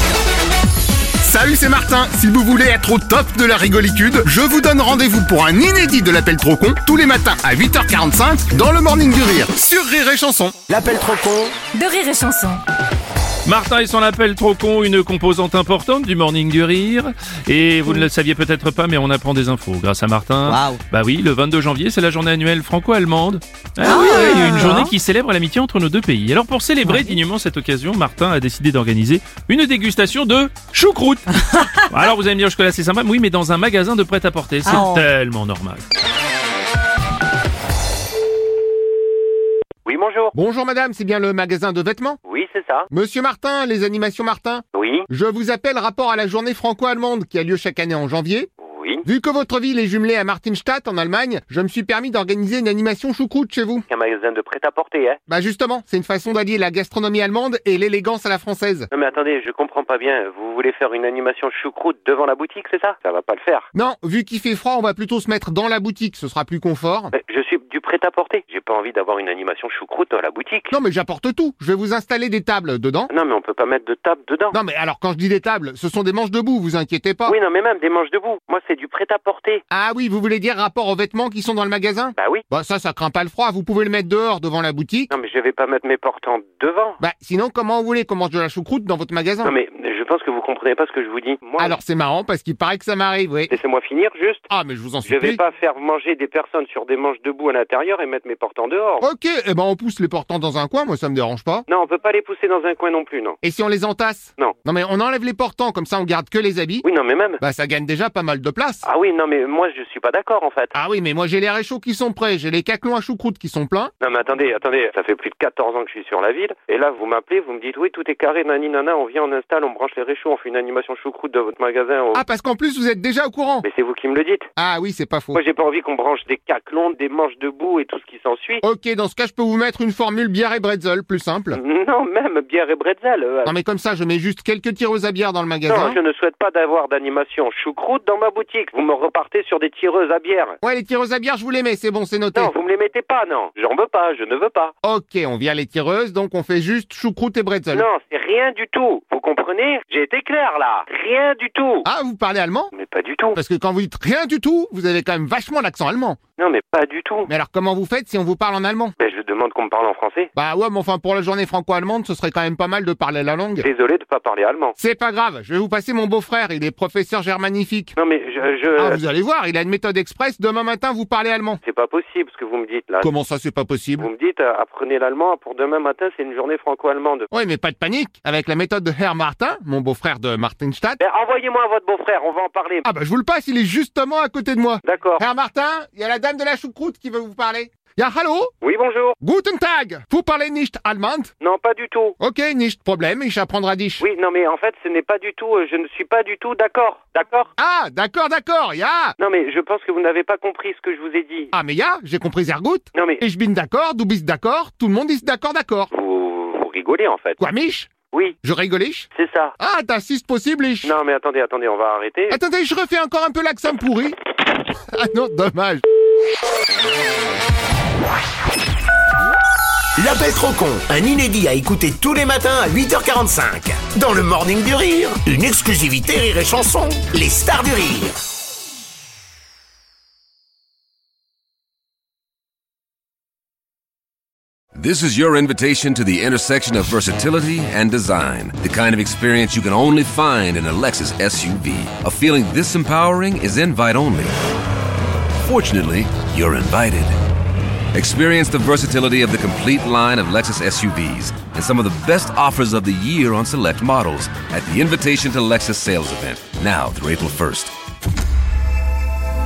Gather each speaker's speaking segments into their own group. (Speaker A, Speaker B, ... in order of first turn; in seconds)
Speaker A: 1.2-10.5, 40.3-42.2, 42.9-48.5, 49.0-53.8, 55.3-58.9, 63.7-67.1, 70.7-73.1, 74.5-77.3, 79.7-85.1, 87.0-89.5, 91.6-93.5, 94.5-95.4, 99.0-101.7, 103.4-106.8, 107.4-108.8, 110.7-113.9, 122.1-123.7, 124.6-125.4, 128.6-131.6, 133.4-136.0, 140.6-142.5, 144.8-147.9, 151.8-152.7, 153.3-156.2, 157.3-158.9, 160.3-163.7, 164.8-167.9, 168.8-171.6, 173.0-174.1, 177.3-181.0, 182.8-188.5, 189.2-191.3, 192.2-194.1, 197.6-199.1, 201.5-205.9, 207.4-207.9, 208.4-210.9, 212.3-214.2, 214.9-215.8
Speaker B: 10.7-11.5, 220.0-228.1
Speaker C: 11.7-12.6, 20.5-20.8, 23.8-24.9, 34.6-35.0
Speaker D: 13.4-31.2, 31.9-35.8
Speaker E: 39.9-40.3, 42.2-42.9, 44.7-45.1, 48.6-49.0, 53.9-55.2, 58.9-63.7, 67.1-70.7, 73.1-74.6, 77.2-79.6, 82.2-82.4, 85.1-87.0, 89.4-91.8, 93.5-94.5, 95.0-99.0, 101.7-103.4, 106.8-107.4, 108.8-110.7, 114.0-122.2, 123.6-124.5, 125.3-128.6, 131.5-133.5, 135.7-140.6, 142.3-144.7, 147.7-151.9, 152.7-153.4, 156.4-157.3, 159.0-160.3, 163.6-164.7, 168.0-169.0, 171.6-173.1, 174.0-177.3, 181.0-182.9, 184.8-185.2, 188.6-189.2, 191.4-192.2, 194.0-197.5, 199.2-201.5, 202.9-203.2, 205.9-207.4, 208.1-208.4, 209.1-209.5, 210.8-212.4
Speaker F: 234.7-244.3, 245.4-247.1, 247.9-257.7